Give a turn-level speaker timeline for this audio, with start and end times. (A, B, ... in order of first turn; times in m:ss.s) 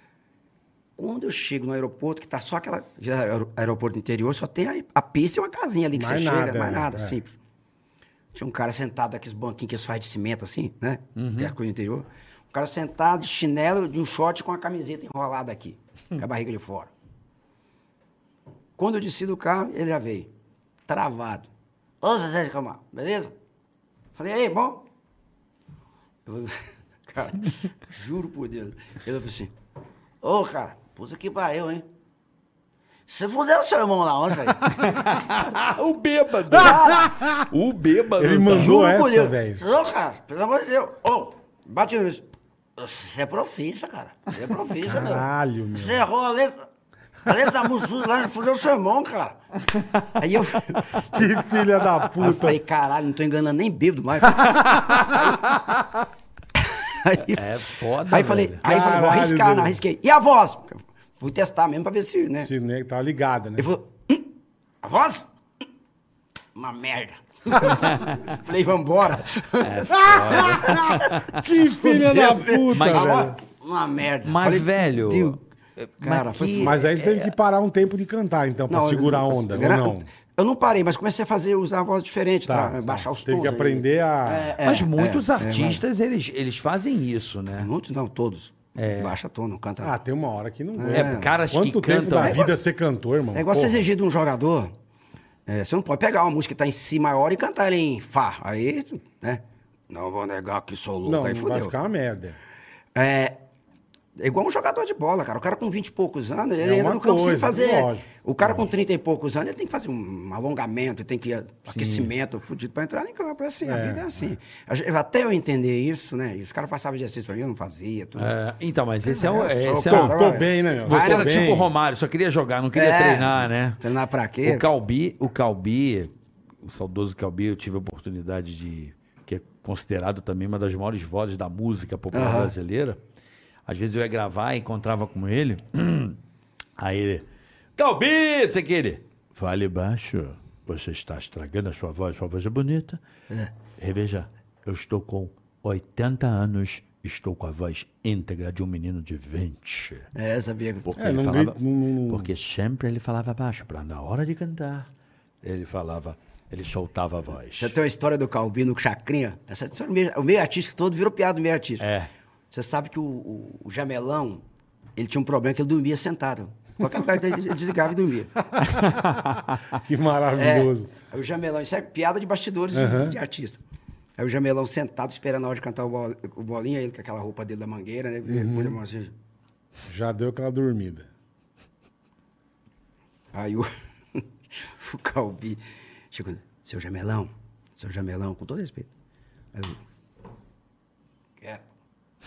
0:01.0-0:07.3 A
0:05.9-0:07.2 B
0:08.3-0:16.9 A
0:11.2-0:11.5 C
0:18.8-0:20.3 A
0:20.9-0:21.5 A
0:22.0-0:23.3 A
0:24.2-0:24.8 A
0:26.2-0:29.5 A
0:30.2-0:31.8 A
0:33.1-0:34.7 A
0:34.6-0:38.8 C
0:36.5-0:37.1 A
0:36.5-0:37.4 B
0:38.2-0:39.6 B
0:38.5-0:42.2 A
0:42.8-0:46.6 A
0:44.8-0:46.0 B
0:47.2-0:49.4 A
0:50.0-0:51.4 A
0:51.1-0:52.6 B
0:52.2-0:55.3 A
0:54.6-0:55.2 C
0:56.6-0:57.5 A
0:57.2-0:58.6 C
0:58.1-1:02.5 A
0:58.6-0:59.8 B
1:02.4-1:03.7 B
1:03.6-1:04.3 A
1:04.8-1:05.2 A
1:06.5-1:11.2 A
1:07.6-1:08.4 C
1:09.6-1:11.4 C
1:09.9-1:13.3 B
1:11.7-1:15.4 A
1:12.7-1:13.3 C
1:14.2-1:17.1 C
1:16.0-1:16.9 A
1:16.6-1:20.1 B
1:18.7-1:25.8 A
1:22.5-1:24.6 B
1:24.6-1:27.7 C
1:27.6-1:29.9 A
1:28.8-1:29.1 C
1:29.8-1:33.9 B
1:30.7-1:31.3 A
1:30.9-1:32.4 C
1:32.2-1:32.6 A
1:33.3-1:34.7 A
1:35.5-1:41.7 A
1:41.0-1:42.4 B
1:42.9-1:43.4 A
1:44.2-1:58.3 A
1:46.6-1:48.0 B
1:51.7-1:52.1 C
1:53.6-1:54.2 B
1:58.2-2:00.2 C
1:59.0-2:01.5 A
1:59.8-2:01.7 B
2:00.8-2:03.8 C
2:02.7-2:04.6 A
2:04.4-2:06.1 C
2:06.6-2:13.0 C
2:12.1-2:12.5 A
2:13.6-2:16.2 C
2:16.8-2:17.2 C
2:17.8-2:23.0 C
2:23.8-2:30.1 C
2:30.1-2:30.9 A
2:30.8-2:34.9 C
2:31.0-2:32.3 B
2:35.4-2:37.7 C
2:37.5-2:41.8 A
2:41.8-2:42.1 C
2:42.5-2:44.4 A
2:45.0-2:48.3 A
2:48.6-2:49.8 C
2:49.7-2:50.9 B
2:50.4-2:53.6 A
2:52.7-2:53.2 B
2:54.2-2:59.1 A
2:58.3-2:58.8 B
2:59.9-3:01.1 B
3:03.3-3:08.9 A
3:09.5-3:09.8 A